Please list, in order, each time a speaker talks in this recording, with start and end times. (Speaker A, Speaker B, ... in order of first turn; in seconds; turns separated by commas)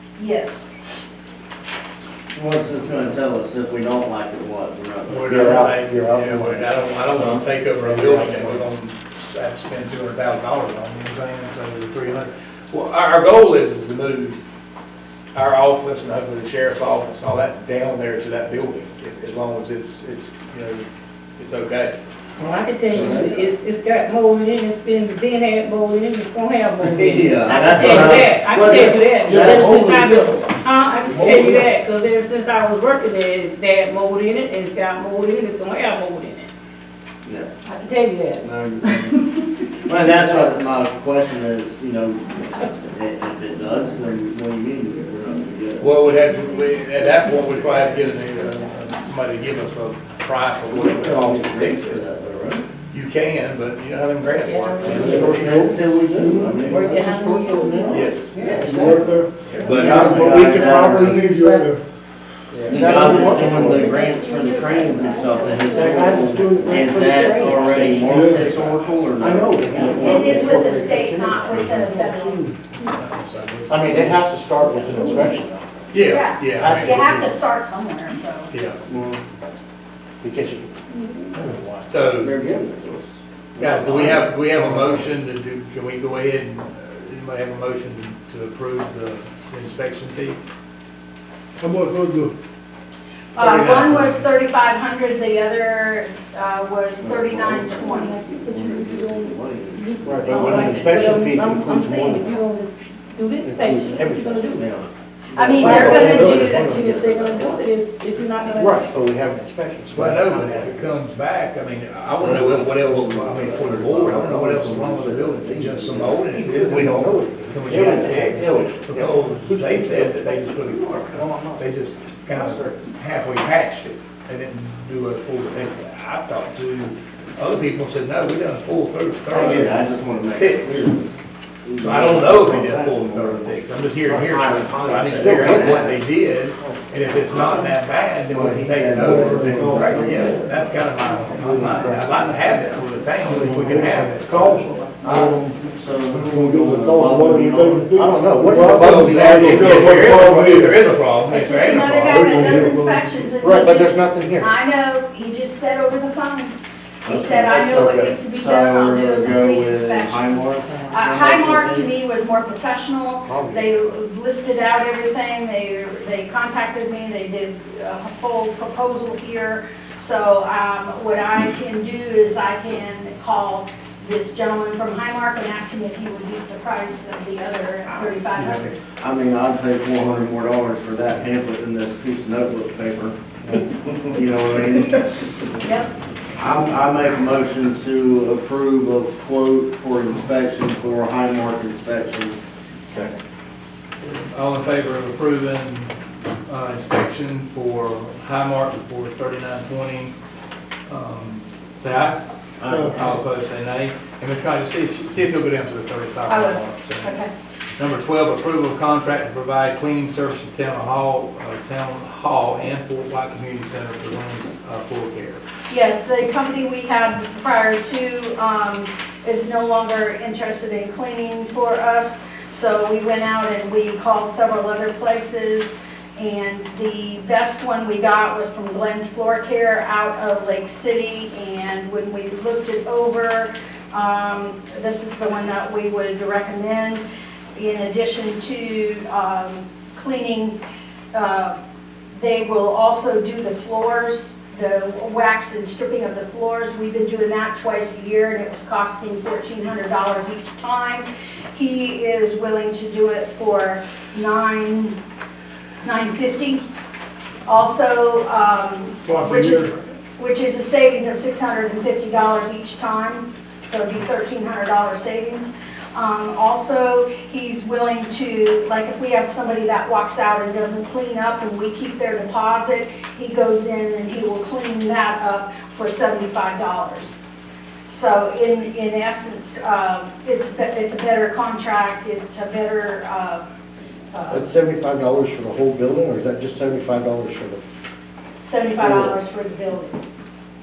Speaker A: 0.2-0.7, Speaker B: 2.3-5.6, Speaker C: 5.1-14.4, Speaker D: 5.2-8.7, Speaker C: 15.3-20.8, Speaker C: 21.4-21.9, Speaker E: 22.4-36.5, Speaker B: 22.9-23.5, Speaker B: 26.8-29.8, Speaker D: 29.2-29.9, Speaker C: 29.3-30.4, Speaker C: 31.2-31.6, Speaker B: 37.2-37.5, Speaker E: 37.6-39.5, Speaker B: 38.4-39.2, Speaker B: 39.8-46.0, Speaker C: 45.8-52.0, Speaker E: 46.2-48.6, Speaker B: 50.7-52.7, Speaker C: 52.9-55.7, Speaker E: 54.4-55.1, Speaker B: 54.8-61.6, Speaker D: 54.9-58.2, Speaker F: 55.1-55.8, Speaker E: 56.6-58.7, Speaker C: 57.9-58.3, Speaker F: 58.4-61.8, Speaker C: 59.5-60.8, Speaker D: 59.6-60.2, Speaker D: 62.5-63.9, Speaker B: 62.7-70.3, Speaker E: 62.7-66.4, Speaker D: 65.7-72.5, Speaker F: 66.4-66.8, Speaker E: 67.1-67.7, Speaker F: 68.0-68.6, Speaker E: 69.7-70.9, Speaker A: 70.0-72.5, Speaker C: 72.8-74.2, Speaker D: 73.7-75.7, Speaker E: 74.9-75.3, Speaker C: 75.9-77.2, Speaker A: 76.0-78.5, Speaker D: 76.5-77.3, Speaker C: 78.5-78.8, Speaker D: 78.9-79.2, Speaker D: 80.2-80.7, Speaker E: 80.9-81.3, Speaker F: 81.3-81.6, Speaker D: 81.4-81.9, Speaker C: 81.9-82.3, Speaker B: 82.1-84.3, Speaker C: 83.6-90.4, Speaker D: 84.5-85.0, Speaker F: 91.6-92.3, Speaker A: 93.3-98.2, Speaker C: 93.4-94.3, Speaker B: 97.0-97.9, Speaker E: 97.7-104.7, Speaker B: 98.4-100.9, Speaker D: 100.0-102.4, Speaker D: 103.4-104.6, Speaker B: 104.5-107.6, Speaker D: 105.3-106.9, Speaker A: 105.5-106.7, Speaker E: 105.6-108.9, Speaker D: 108.4-110.9, Speaker C: 109.9-130.9, Speaker B: 112.2-113.4, Speaker D: 112.2-121.7, Speaker B: 117.7-118.5, Speaker D: 122.3-122.8, Speaker B: 129.3-131.1, Speaker B: 131.6-136.0, Speaker C: 131.8-144.7, Speaker D: 135.0-136.0, Speaker B: 137.3-137.7, Speaker B: 138.3-140.6, Speaker F: 139.0-140.2, Speaker D: 141.2-142.3, Speaker F: 141.7-142.0, Speaker F: 143.2-150.8, Speaker D: 143.4-144.0, Speaker B: 145.0-147.9, Speaker D: 147.9-149.9, Speaker C: 148.7-152.3, Speaker A: 151.3-178.8, Speaker F: 152.1-153.3, Speaker D: 153.4-154.5, Speaker B: 157.0-161.9, Speaker D: 163.2-163.8, Speaker B: 177.9-183.2, Speaker B: 184.1-185.1, Speaker A: 185.6-185.9, Speaker B: 186.4-192.4, Speaker A: 192.9-193.2, Speaker C: 194.0-195.9, Speaker C: 196.5-200.1, Speaker C: 200.9-202.2, Speaker B: 202.6-203.0, Speaker F: 202.7-202.9, Speaker C: 202.7-207.2, Speaker A: 206.3-207.3, Speaker C: 207.8-215.4, Speaker A: 215.7-237.0, Speaker A: 237.5-240.6, Speaker A: 241.1-241.6, Speaker A: 242.1-254.9, Speaker A: 255.8-256.6, Speaker A: 257.4-277.2, Speaker F: 259.0-259.7, Speaker A: 277.9-283.4, Speaker A: 284.1-284.4, Speaker D: 284.3-287.6, Speaker A: 288.4-290.0, Speaker D: 288.8-289.1